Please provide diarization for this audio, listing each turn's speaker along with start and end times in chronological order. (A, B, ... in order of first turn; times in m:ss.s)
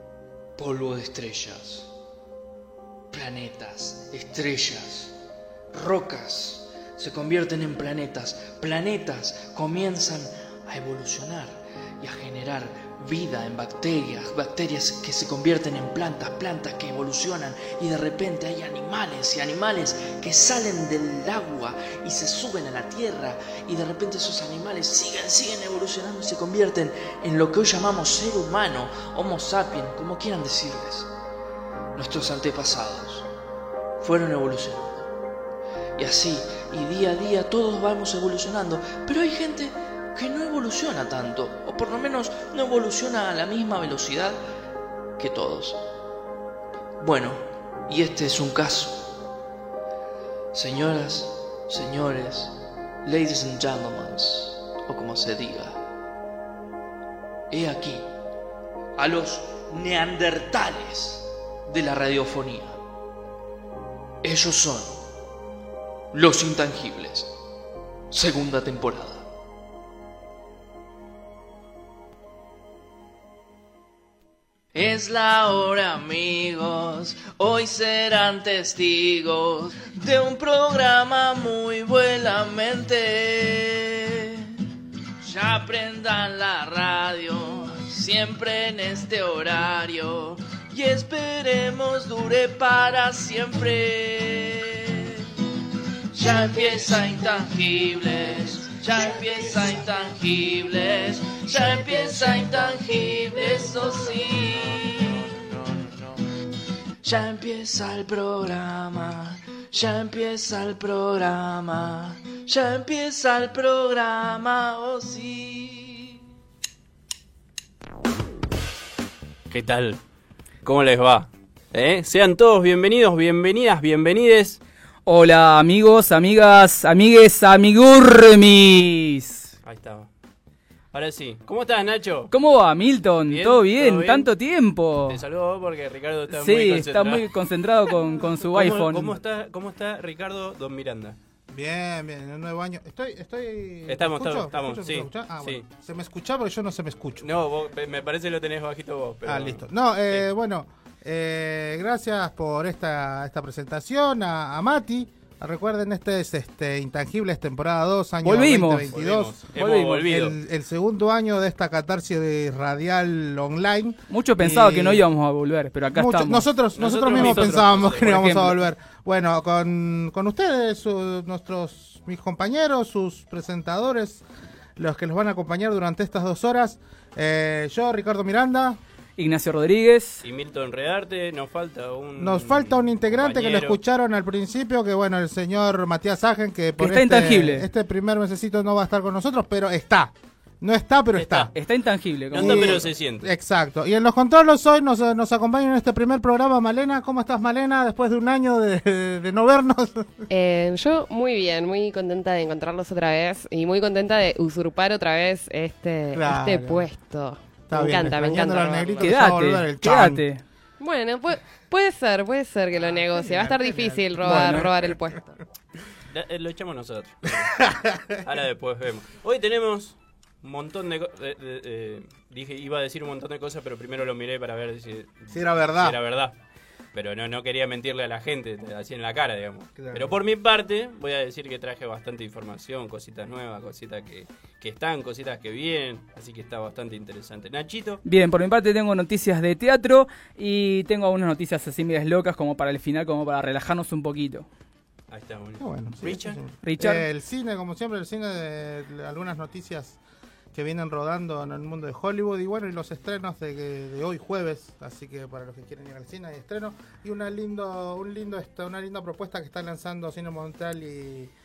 0:00.6-0:01.9 A
0:03.1-0:05.1 A
0:05.7-0:31.1 A
0:32.0-0:33.3 A
0:34.0-0:35.1 A
0:36.0-0:44.4 A
0:45.2-0:45.8 A
0:47.0-0:49.1 A
0:50.5-0:55.8 A
0:57.5-0:58.1 A
0:59.0-1:02.8 A
1:04.2-1:05.1 A
1:06.1-1:07.3 A
1:08.1-1:09.3 A
1:14.7-1:24.6 A
1:25.2-1:35.3 A
1:36.1-1:45.8 A
1:47.0-1:56.2 A
1:59.5-2:00.0 B
2:00.6-2:04.6 B
2:05.1-2:09.6 C
2:09.6-2:10.1 B
2:10.9-2:12.3 B
2:12.3-2:15.2 C
2:13.3-2:14.3 B
2:15.1-2:17.3 B
2:16.3-2:19.2 C
2:18.4-2:21.2 B
2:21.5-2:27.3 D
2:23.9-2:25.7 B
2:27.2-2:30.3 B
2:29.2-2:45.0 D
2:38.2-2:38.9 C
2:38.9-2:40.4 B
2:39.6-2:40.1 C
2:44.1-2:46.5 C
2:45.9-2:54.2 D
2:46.8-2:48.2 B
2:47.1-2:48.6 C
2:54.8-2:58.8 D
2:59.2-3:00.2 C
3:00.2-3:03.8 B
3:02.2-3:11.5 D
3:06.8-3:07.7 C
3:11.1-3:11.5 B
3:11.5-3:12.8 C
3:12.3-3:13.3 B
3:12.3-3:20.3 D
3:20.3-3:29.0 E
3:26.1-3:26.9 D
3:27.7-3:30.2 D
3:28.8-3:29.1 B
3:29.0-3:30.4 C
3:30.8-3:35.4 E
3:32.7-3:35.0 D
3:34.2-3:34.7 C
3:36.1-3:37.6 B
3:37.6-3:38.2 D
3:38.2-3:46.4 B
3:45.3-3:46.0 D
3:46.9-3:58.0 B
3:49.8-3:50.2 D
3:58.0-4:04.5 C
4:05.1-4:06.4 B
4:05.6-4:10.0 D
4:06.6-4:07.1 C
4:10.5-4:21.3 D